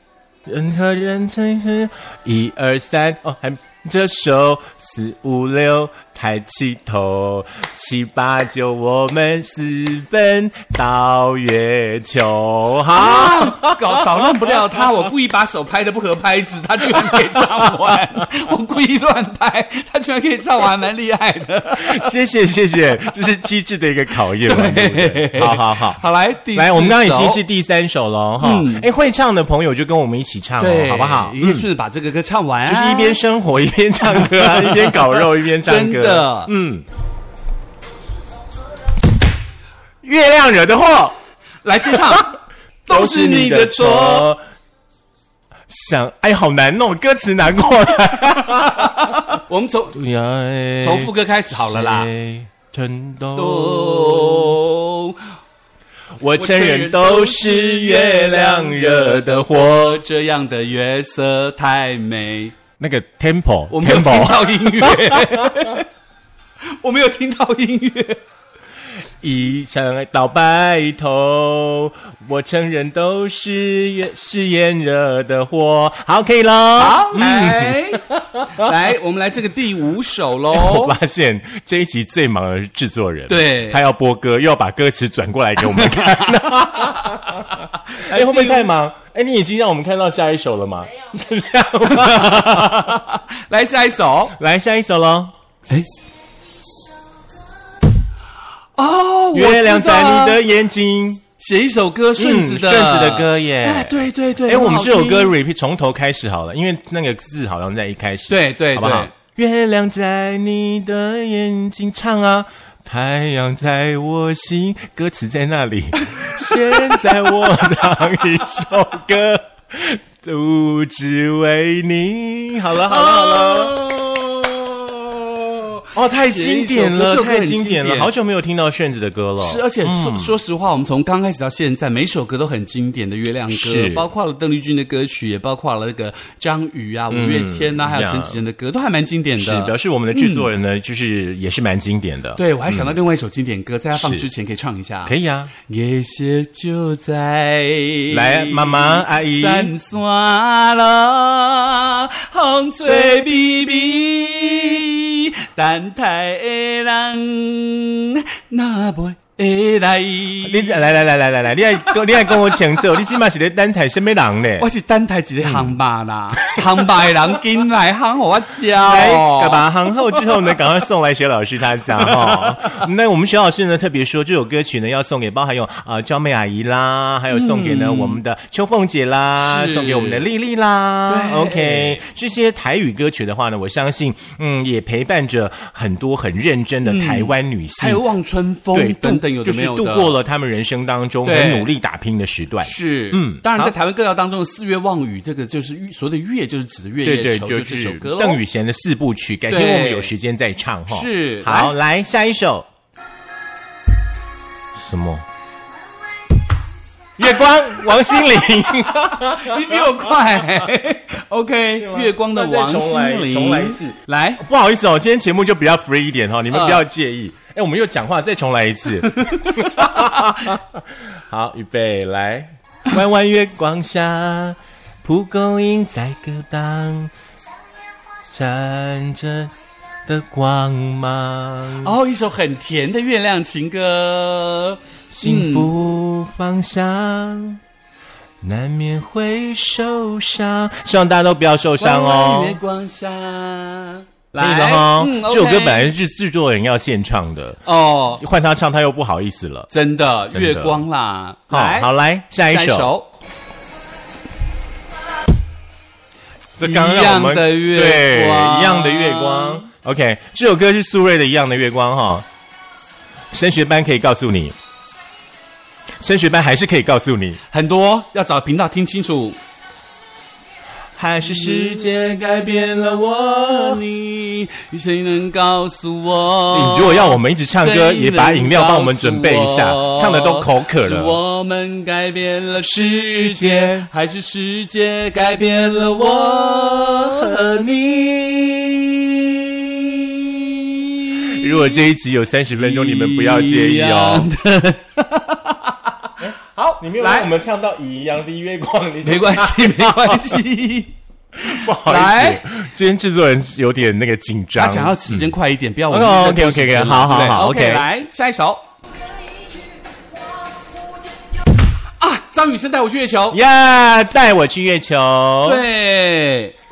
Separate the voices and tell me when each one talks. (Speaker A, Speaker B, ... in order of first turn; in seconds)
Speaker A: 0.5-14.6, 16.9-17.5, 21.8-26.0, 26.6-31.7, 32.6-36.9, 40.0-41.2, 41.9-42.2, 42.9-44.4, 45.7-49.3, 49.9-54.6, 56.2-59.8, 62.8-65.8, 69.2-78.7, 80.5-93.0, 94.3-95.3, 99.3-101.2, 102.2-123.8, 125.9-130.4, 133.5-134.1, 137.1-138.4, 139.4-142.9, 143.9-144.3, 145.1-145.5, 148.1-149.7, 152.8-153.2, 160.4-164.7, 165.4-165.7, 166.4-166.9, 168.7-188.0, 188.7-193.7, 197.0-202.7, 204.8-205.2, 207.2-210.5, 211.8-227.1, 228.3-229.5, 230.1-232.0, 235.1-237.6, 238.4-242.6, 244.3-247.6, 248.2-249.7, 250.3-250.8, 251.5-252.9, 256.6-262.2, 263.3-264.6, 266.0-267.4, 271.0-273.8, 276.5-281.2, 283.1-283.9, 285.6-289.9, 291.1-294.3, 296.2-300.4, 301.4-305.3, 305.9-307.9, 313.3-315.6
Speaker B: 12.9-22.1, 24.4-27.4, 28.4-28.9, 30.6-33.2, 34.1-36.5, 41.6-44.3, 48.2-50.0, 50.8-52.1, 53.4-55.2, 56.4-62.5, 63.7-65.9, 66.8-68.2, 76.8-81.0, 83.3-83.8, 85.6-88.7, 91.8-94.4, 98.8-100.4, 101.4-105.3, 108.3-109.1, 116.0-117.5, 122.8-128.1, 129.4-140.5, 142.4-145.1, 145.7-160.8, 162.0-162.6, 164.6-170.6, 171.9-172.5, 177.3-178.2, 179.4-180.3, 181.1-182.0, 186.8-190.2, 191.2-191.7, 192.6-198.4, 199.5-200.1, 200.9-201.8, 209.1-214.4, 216.5-216.8, 219.1-220.4, 231.7-235.7, 241.8-245.9, 247.7-248.2, 249.7-253.1, 256.6-259.6, 267.5-269.4, 271.2-271.9, 273.3-287.8, 289.6-291.9, 292.5-297.3, 299.0-302.4, 304.6-308.6, 312.0-313.4, 315.4-316.5